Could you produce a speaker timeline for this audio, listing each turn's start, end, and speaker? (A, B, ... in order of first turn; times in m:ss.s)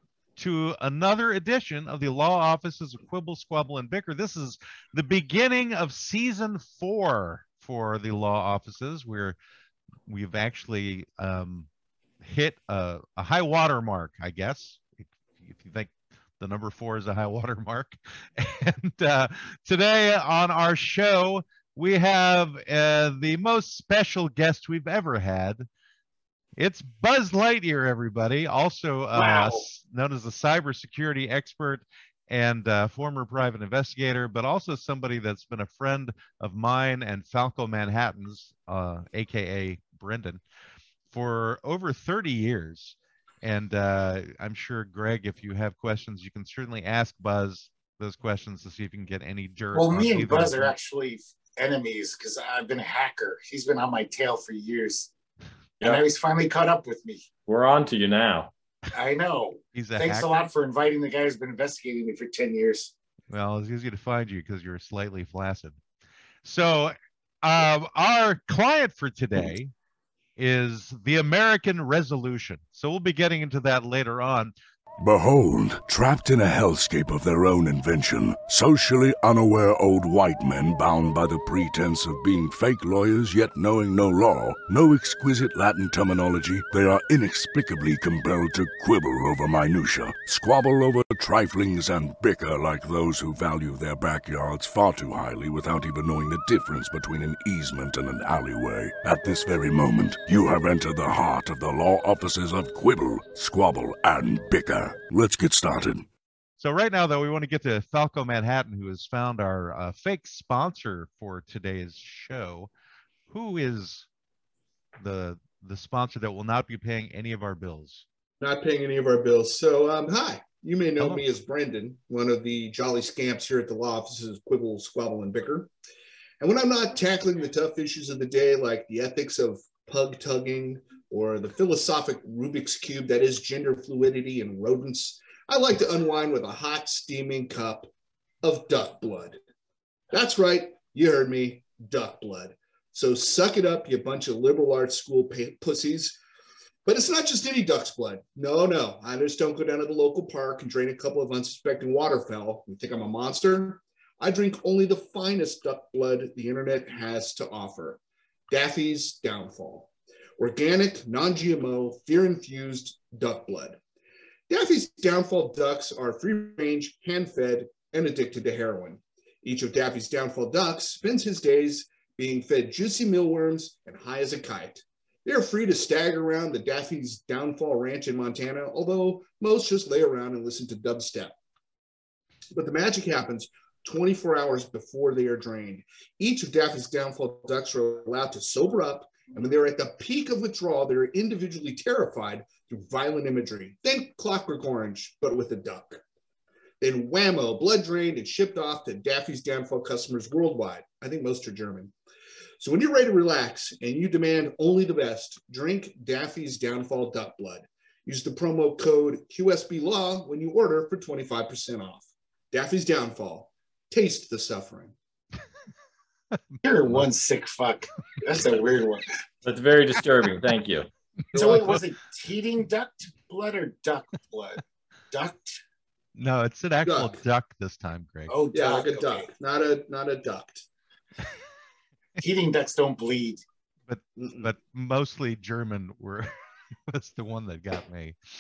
0:00.4-0:09.4 A
0:10.1-0:11.7 A
0:12.2-0:25.7 A
0:26.6-0:40.4 A
0:29.1-0:29.6 B
0:41.1-0:50.7 A
0:49.7-0:55.1 B
0:55.8-0:57.2 B
0:57.5-0:58.5 C
0:58.9-1:02.9 B
0:59.7-1:00.3 A
1:03.3-1:05.8 A
1:06.4-1:09.7 A
1:10.4-1:14.5 A
1:15.0-1:46.0 D
1:46.6-1:52.7 A
1:53.3-1:54.0 A
1:55.0-1:58.0 A
1:58.4-2:05.7 E
2:01.0-2:01.2 A
2:06.4-2:17.9 E
2:18.4-2:19.4 E
2:20.1-2:26.2 E
2:26.8-2:43.8 E
2:44.5-3:01.3 E
3:02.5-3:16.0 E
3:16.8-3:21.9 E
3:22.6-3:34.9 E
3:36.5-3:37.1 A
3:36.6-3:39.1 B
3:39.4-3:40.9 C
3:41.3-3:41.8 E
3:41.3-3:45.6 B
3:46.2-3:48.3 A
3:46.8-3:47.2 E
3:48.3-3:49.3 B
3:48.5-3:50.6 E
3:52.2-3:53.4 B
3:53.9-3:56.3 A
3:54.2-3:54.5 E
3:56.9-3:58.2 A